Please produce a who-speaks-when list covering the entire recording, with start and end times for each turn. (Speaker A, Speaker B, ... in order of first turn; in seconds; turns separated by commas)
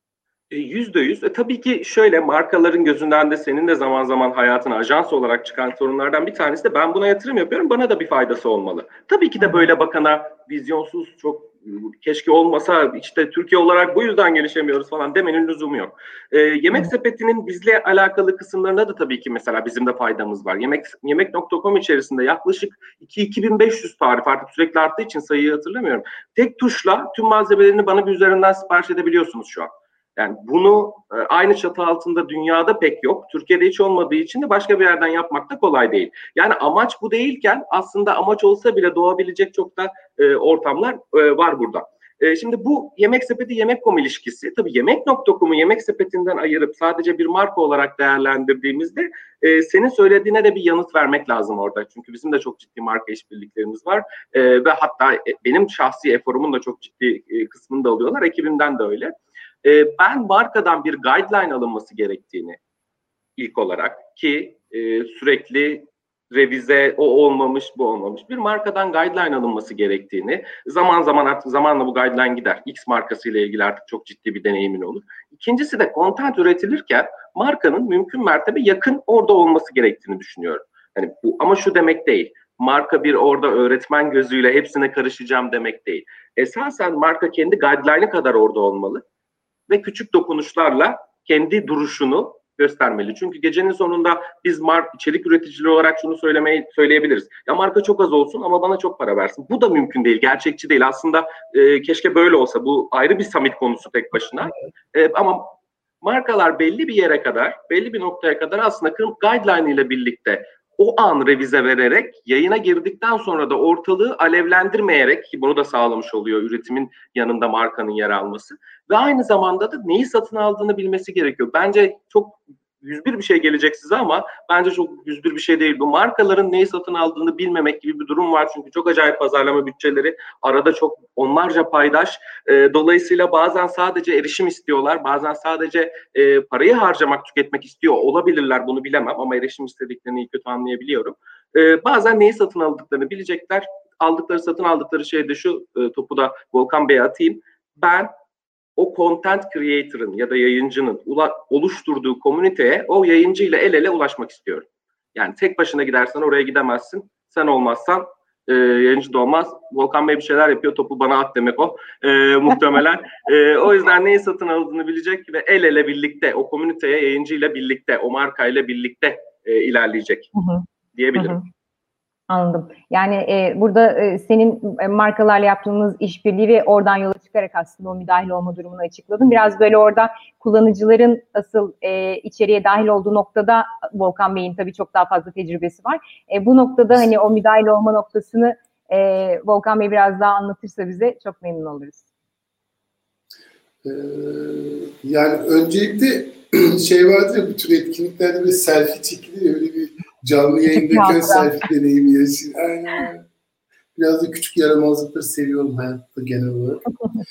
Speaker A: 0.5-62.6, Speaker B: 9.4-9.7, Speaker A: 63.4-89.0, Speaker A: 89.7-148.1, Speaker A: 148.8-170.3, Speaker B: 170.3-171.4, Speaker A: 170.9-171.4, Speaker B: 172.3-192.0, Speaker C: 193.8-203.2, Speaker B: 200.7-201.5, Speaker C: 204.0-206.8